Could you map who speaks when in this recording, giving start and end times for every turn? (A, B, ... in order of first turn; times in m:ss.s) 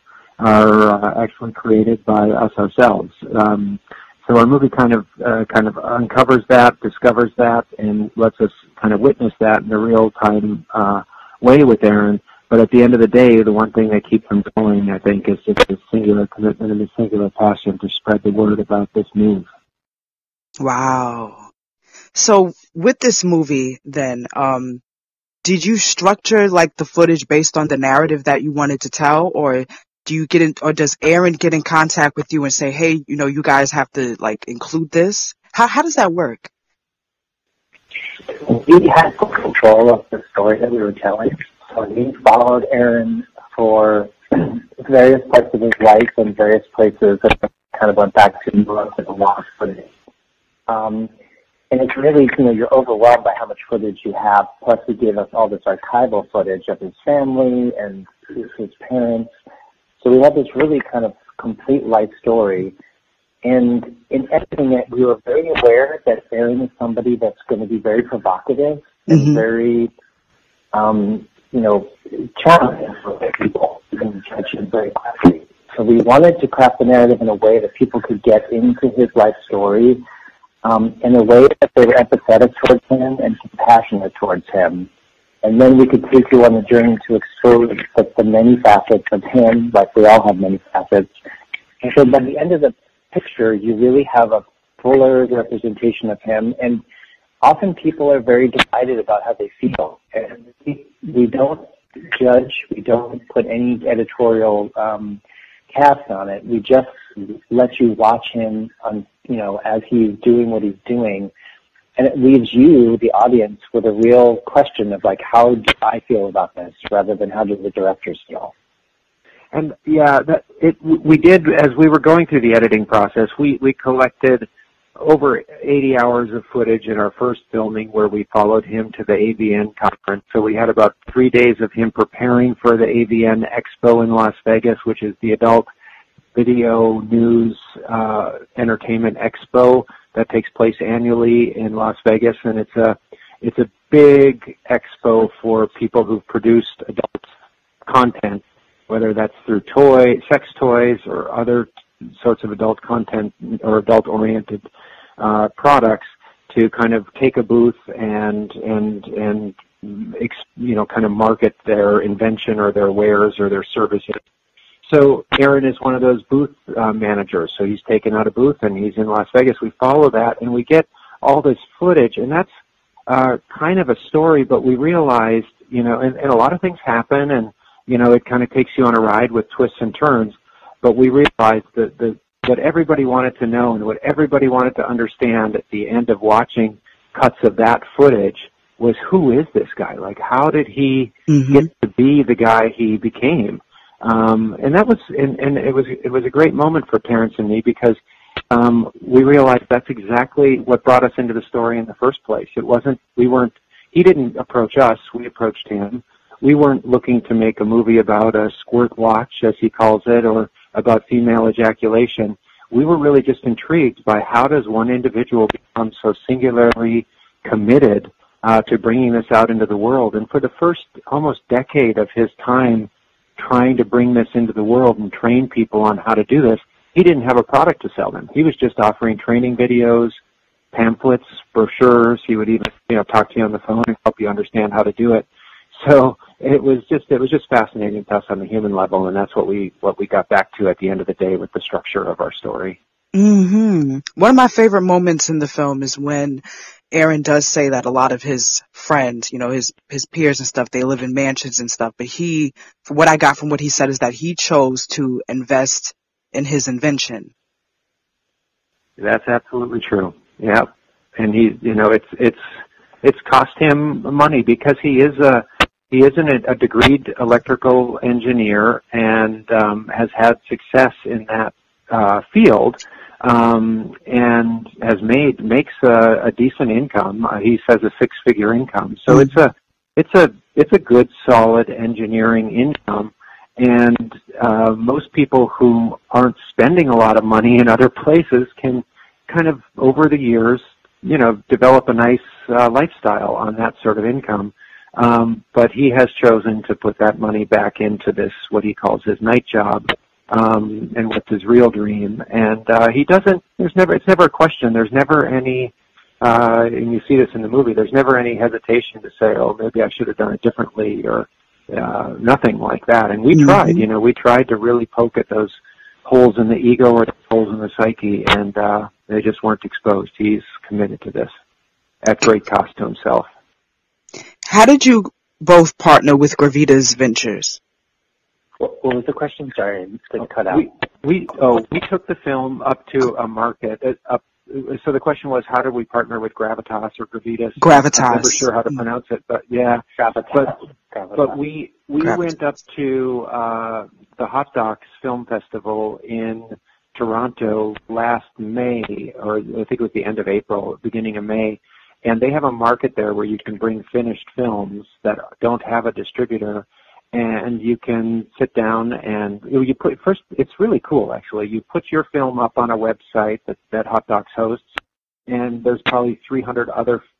0:00.4-0:19.4 A
0:20.6-0:21.4 B
0:22.1-0:24.8 B
0:25.4-0:36.5 B
0:38.3-0:49.9 C
0:50.7-0:51.1 C
0:51.7-0:59.3 C
1:00.0-1:02.7 C
1:03.4-1:09.9 C
1:09.1-1:09.4 B
1:10.7-1:20.0 C
1:20.6-1:24.9 C
1:25.4-1:31.1 C
1:31.8-1:36.8 C
1:37.4-1:51.3 C
1:52.0-1:58.5 C
1:59.5-2:04.4 A
2:05.0-2:15.7 A
2:16.3-2:27.3 A
2:27.8-2:34.7 A
2:35.2-2:44.2 A
2:44.8-2:52.5 A
2:53.1-3:18.0 A
3:11.3-3:11.6 B
3:18.5-3:50.2 A
3:50.7-4:02.8 A
4:03.1-4:17.3 B
4:19.0-4:22.4 A
4:23.0-5:21.3 A
5:22.0-5:23.3 A
5:24.4-5:27.6 B
5:28.6-5:30.7 C
5:30.5-5:40.5 A
5:37.6-5:38.4 B
5:40.0-5:41.3 C
5:41.1-6:04.6 A
6:05.3-6:07.0 A